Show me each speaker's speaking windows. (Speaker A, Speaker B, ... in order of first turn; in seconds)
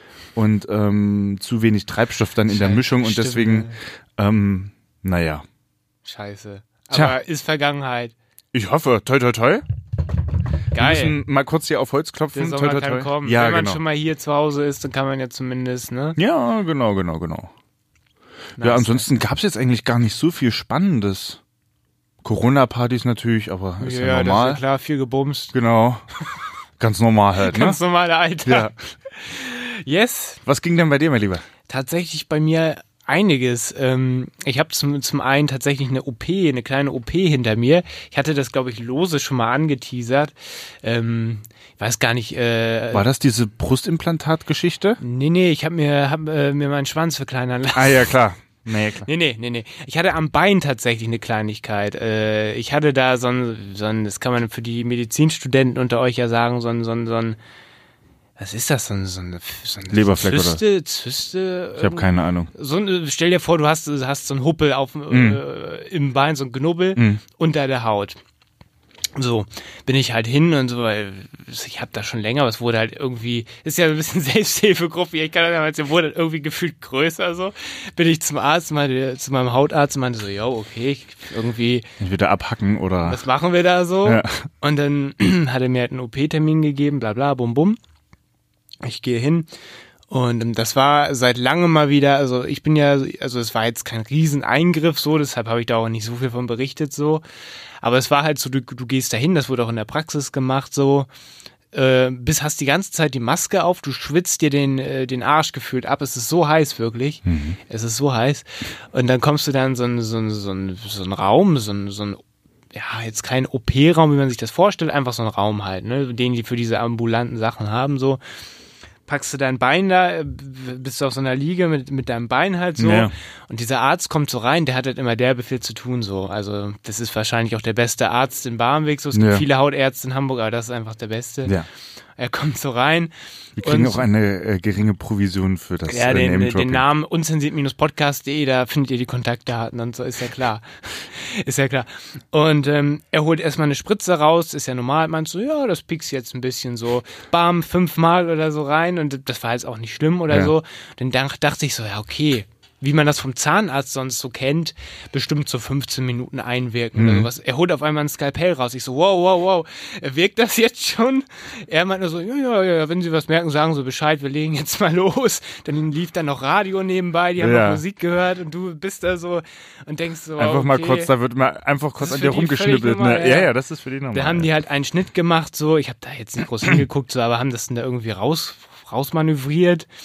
Speaker A: 0.3-5.4, 6.9-7.2, 8.5-9.6, 10.8-13.8, 16.1-17.5, 18.6-21.4, 22.2-24.6, 25.5-26.0, 26.8-27.8, 28.4-28.7, 30.4-31.4, 42.9-45.0, 47.7-49.1, 59.9-60.6, 61.8-62.5, 65.1-65.4, 67.0-67.2, 82.0-83.2, 84.0-84.4, 107.2-107.6, 122.8-123.1, 129.1-129.4, 133.6-136.8, 156.9-157.3, 167.4-167.8, 170.4-174.5
Speaker B: 2.5-3.8, 6.0-8.1, 10.7-11.2, 12.3-16.2, 18.6-19.1, 23.8-25.5, 27.4-30.4, 31.7-43.0, 45.0-48.1, 49.0-57.4, 58.4-68.2, 69.2-81.9, 83.0-87.8, 88.8-89.5, 90.1-97.2, 97.8-101.1, 101.7-112.2, 112.7-118.2, 119.1-131.6, 132.2-134.1, 135.9-171.1, 172.0-173.5, 174.1-179.9